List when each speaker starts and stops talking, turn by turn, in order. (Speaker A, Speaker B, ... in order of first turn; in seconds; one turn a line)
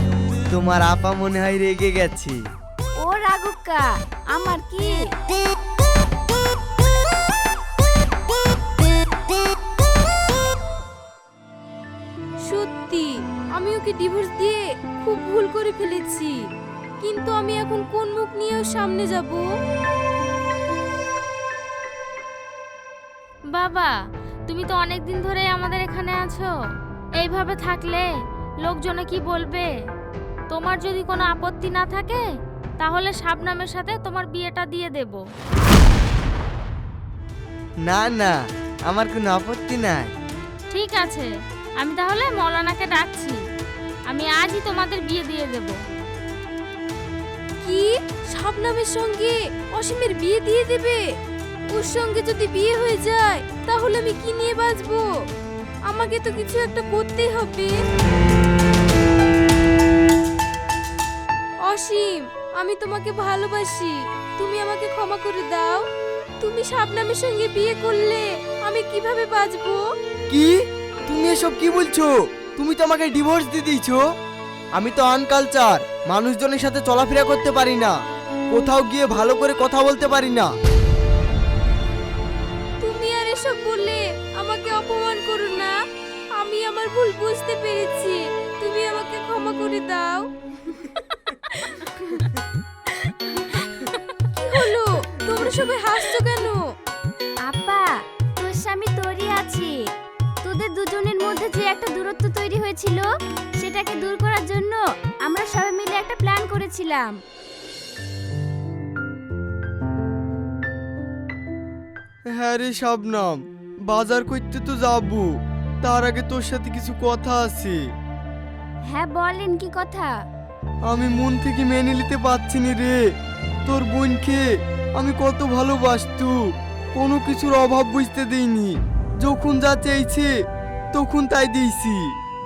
Speaker A: 0.5-2.4
Speaker B: 3.0-5.0
Speaker C: 12.4-16.4
Speaker C: 17.0-19.4
Speaker D: 23.5-23.9
Speaker D: 24.5-26.5
Speaker D: 27.2-28.1
Speaker D: 28.6-29.7
Speaker D: 30.5-32.2
Speaker D: 32.8-35.2
Speaker A: 37.9-40.1
Speaker D: 40.7-43.4
Speaker D: 44.1-45.7
Speaker C: 47.6-51.0
Speaker C: 51.7-55.1
Speaker C: 55.9-57.7
Speaker C: 61.6-65.8
Speaker C: 66.4-69.8
Speaker A: 70.3-70.5
Speaker A: 71.1-74.0
Speaker A: 74.8-77.9
Speaker A: 78.5-80.5
Speaker C: 82.8-85.7
Speaker C: 86.4-90.3
Speaker C: 91.1-91.9
Speaker C: 93.6-96.6
Speaker B: 97.5-99.7
Speaker B: 100.4-103.0
Speaker B: 103.6-107.1
Speaker A: 112.3-115.3
Speaker A: 115.8-117.8
Speaker B: 118.9-120.1
Speaker A: 120.9-123.0
Speaker A: 123.7-124.4
Speaker A: 125.0-126.3
Speaker A: 126.9-130.3
Speaker A: 130.9-132.0